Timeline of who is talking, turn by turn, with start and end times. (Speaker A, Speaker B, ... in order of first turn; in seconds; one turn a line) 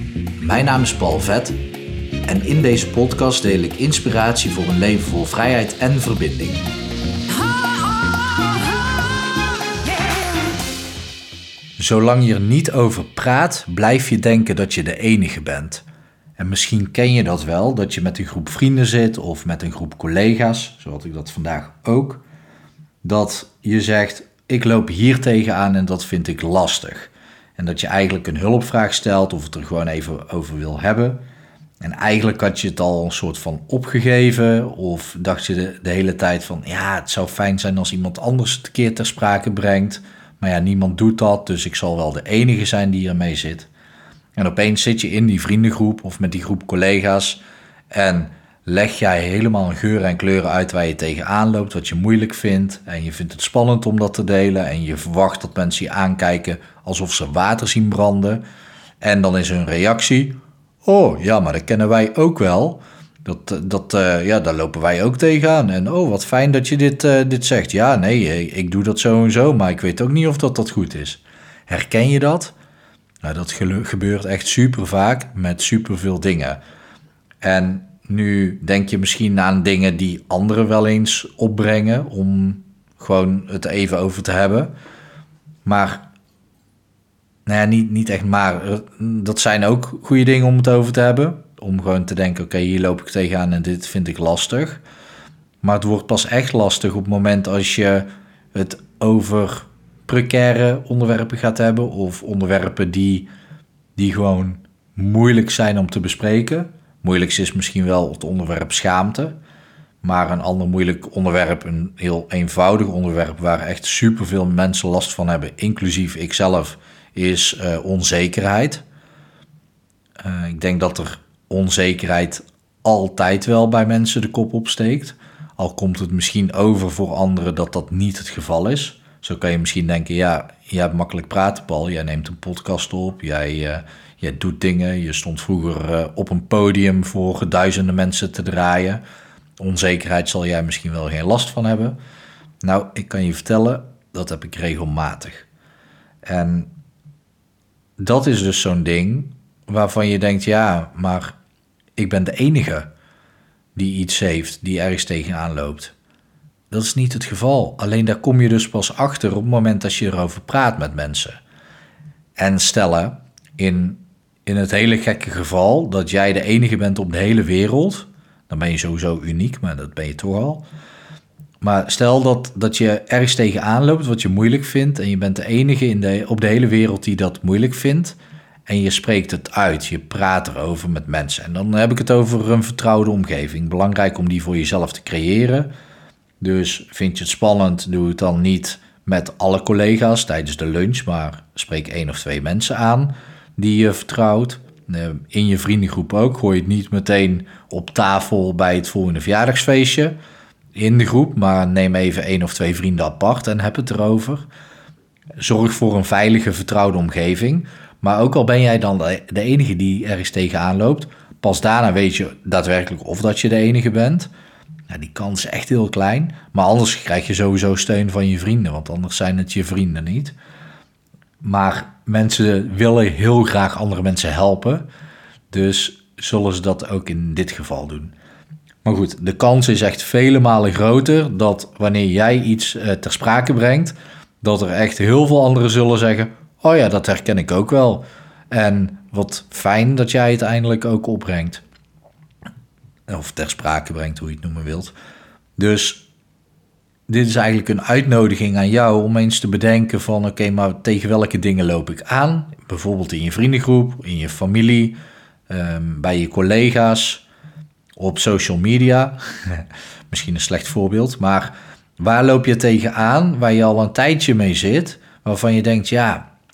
Speaker A: 0.4-1.6
Speaker A: 2.2-6.7
Speaker A: 11.8-15.8
Speaker A: 16.4-22.2
Speaker A: 23.0-31.2
Speaker A: 31.8-43.7
Speaker A: 44.4-47.4
Speaker A: 47.9-58.4
Speaker A: 59.0-72.5
Speaker A: 73.2-76.6
Speaker A: 77.4-84.7
Speaker A: 85.6-86.1
Speaker A: 87.5-94.8
Speaker A: 95.6-103.3
Speaker A: 104.0-109.3
Speaker A: 110.0-118.8
Speaker A: 120.2-139.0
Speaker A: 139.6-142.0
Speaker A: 142.6-145.5
Speaker A: 146.2-146.7
Speaker A: 148.0-151.3
Speaker A: 152.0-152.9
Speaker A: 153.7-155.9
Speaker A: 156.7-161.4
Speaker A: 162.4-170.6
Speaker A: 171.6-178.2
Speaker A: 178.7-185.7
Speaker A: 186.4-200.2
Speaker A: 200.7-204.5
Speaker A: 205.4-214.3
Speaker A: 214.9-220.3
Speaker A: 221.4-224.8
Speaker A: 225.5-228.1
Speaker A: 228.8-241.6
Speaker A: 243.1-244.9
Speaker A: 245.6-246.1
Speaker A: 247.1-255.0
Speaker A: 255.5-257.2
Speaker A: 257.9-266.3